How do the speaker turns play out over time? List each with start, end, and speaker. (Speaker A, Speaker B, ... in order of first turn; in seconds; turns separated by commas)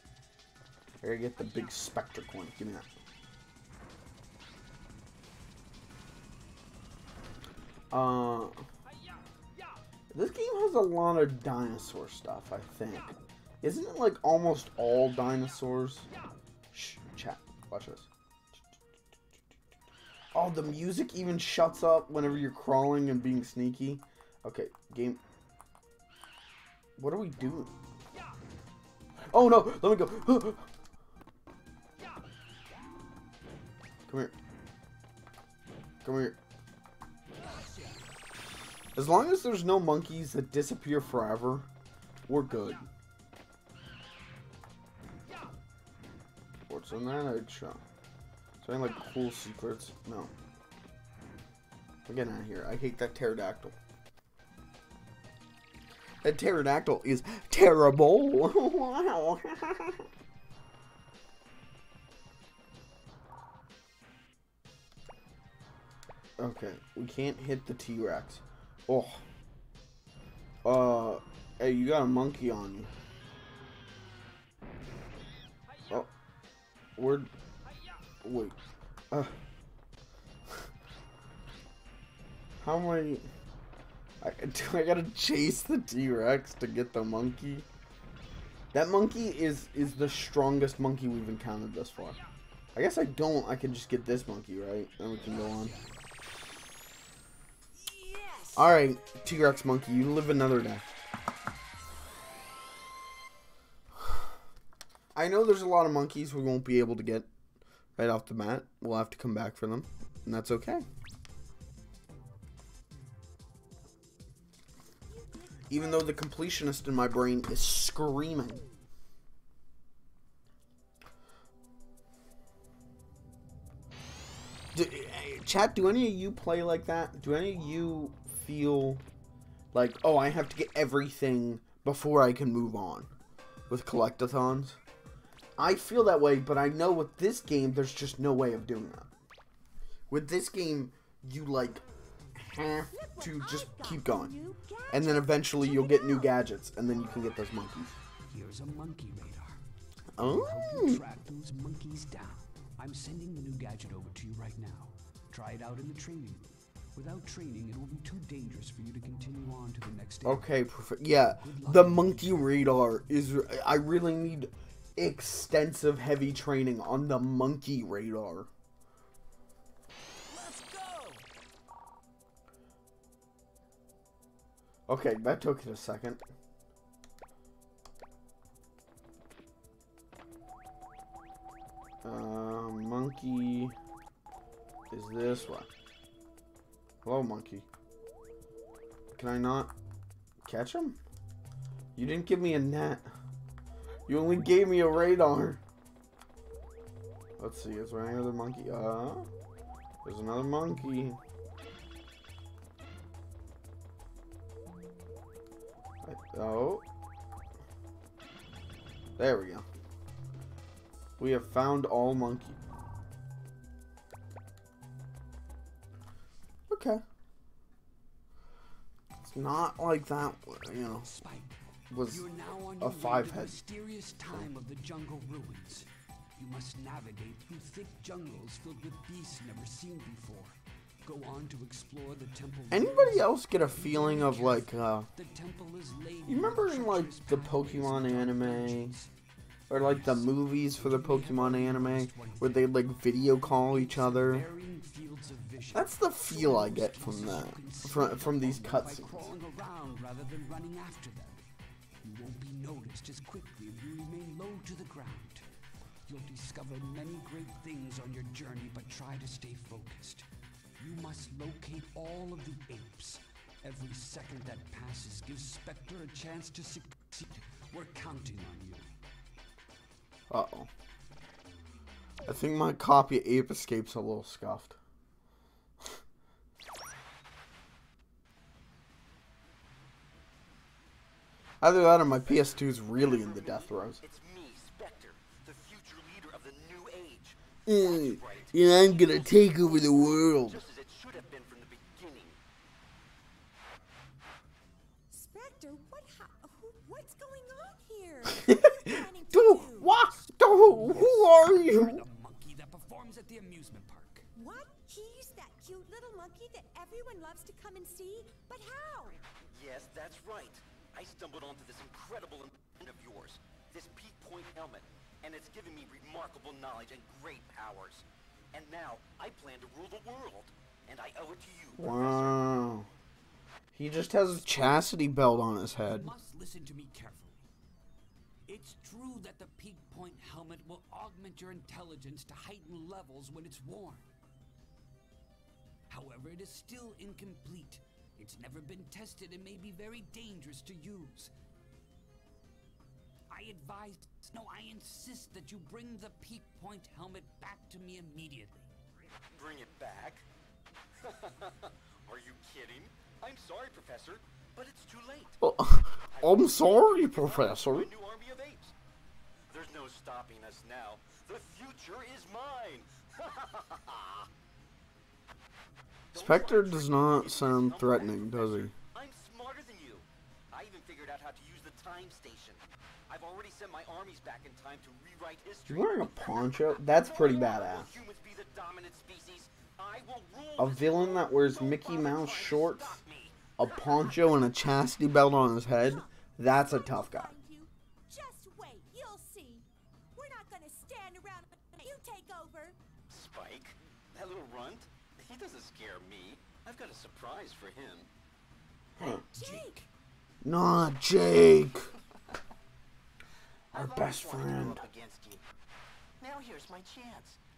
Speaker A: 1.0-2.9, Speaker A: 7.9-8.6, Speaker A: 10.1-16.1, Speaker A: 16.7-18.1, Speaker A: 20.3-25.2, Speaker A: 27.0-27.7, Speaker A: 29.3-30.6, Speaker A: 34.1-34.3, Speaker A: 36.0-36.4, Speaker A: 39.0-41.7, Speaker A: 42.3-42.9, Speaker A: 46.7-47.8, Speaker A: 48.6-50.3, Speaker A: 52.1-53.8, Speaker A: 56.2-60.1, Speaker A: 66.4-69.2, Speaker A: 70.7-72.9, Speaker A: 77.0-77.3, Speaker A: 78.2-78.6, Speaker A: 82.6-83.3, Speaker A: 84.2-87.7, Speaker A: 88.7-92.2, Speaker A: 92.8-95.8, Speaker B: 97.7-98.7, Speaker A: 98.5-100.8, Speaker A: 105.2-107.3, Speaker A: 108.0-110.9, Speaker C: 115.1-116.3, Speaker A: 115.7-118.6, Speaker A: 124.7-129.0, Speaker A: 129.7-133.1, Speaker A: 133.7-134.8, Speaker A: 135.6-139.1, Speaker A: 140.1-141.8, Speaker A: 142.3-144.3, Speaker C: 142.9-146.4, Speaker A: 144.9-147.9, Speaker B: 148.3-149.6, Speaker A: 150.2-151.0, Speaker B: 150.2-160.6, Speaker A: 160.2-168.5, Speaker B: 161.4-162.8, Speaker B: 170.3-171.2, Speaker A: 174.9-176.2, Speaker A: 182.0-183.8, Speaker A: 184.9-185.7, Speaker A: 187.0-187.7, Speaker A: 189.2-189.7, Speaker A: 190.4-191.0, Speaker A: 192.0-193.1, Speaker A: 194.1-195.6, Speaker A: 197.4-199.3, Speaker A: 200.0-201.2, Speaker A: 206.0-206.8, Speaker A: 209.2-209.7, Speaker A: 211.2-212.6, Speaker A: 216.7-217.0, Speaker A: 219.2-221.1, Speaker B: 221.0-239.1, Speaker A: 221.9-222.2, Speaker A: 222.8-223.6, Speaker A: 232.7-235.1, Speaker A: 236.3-239.0, Speaker A: 239.7-244.5, Speaker B: 239.7-251.4, Speaker A: 245.7-249.3, Speaker B: 252.0-255.5, Speaker B: 256.1-268.9, Speaker A: 270.3-270.7, Speaker A: 272.2-274.8, Speaker A: 281.6-284.0, Speaker D: 281.7-292.4, Speaker A: 287.7-290.6, Speaker C: 295.1-299.9, Speaker A: 298.5-302.0, Speaker B: 300.4-304.3, Speaker C: 304.4-309.2, Speaker D: 309.5-322.5, Speaker A: 321.8-322.9, Speaker A: 323.7-326.1, Speaker B: 325.8-327.4, Speaker B: 328.5-334.1, Speaker B: 335.9-341.3, Speaker B: 343.3-348.7, Speaker D: 349.3-350.3, Speaker D: 351.0-355.4, Speaker A: 355.4-357.9, Speaker D: 356.0-358.8, Speaker D: 359.5-364.3, Speaker D: 366.1-384.5, Speaker A: 366.1-368.7, Speaker A: 375.7-377.9, Speaker A: 380.6-383.0, Speaker A: 383.6-387.3, Speaker C: 385.8-392.8, Speaker D: 393.1-398.1, Speaker C: 399.3-399.8, Speaker B: 399.4-399.8, Speaker A: 400.4-401.9, Speaker D: 403.7-405.5, Speaker A: 403.7-404.9, Speaker D: 406.2-407.4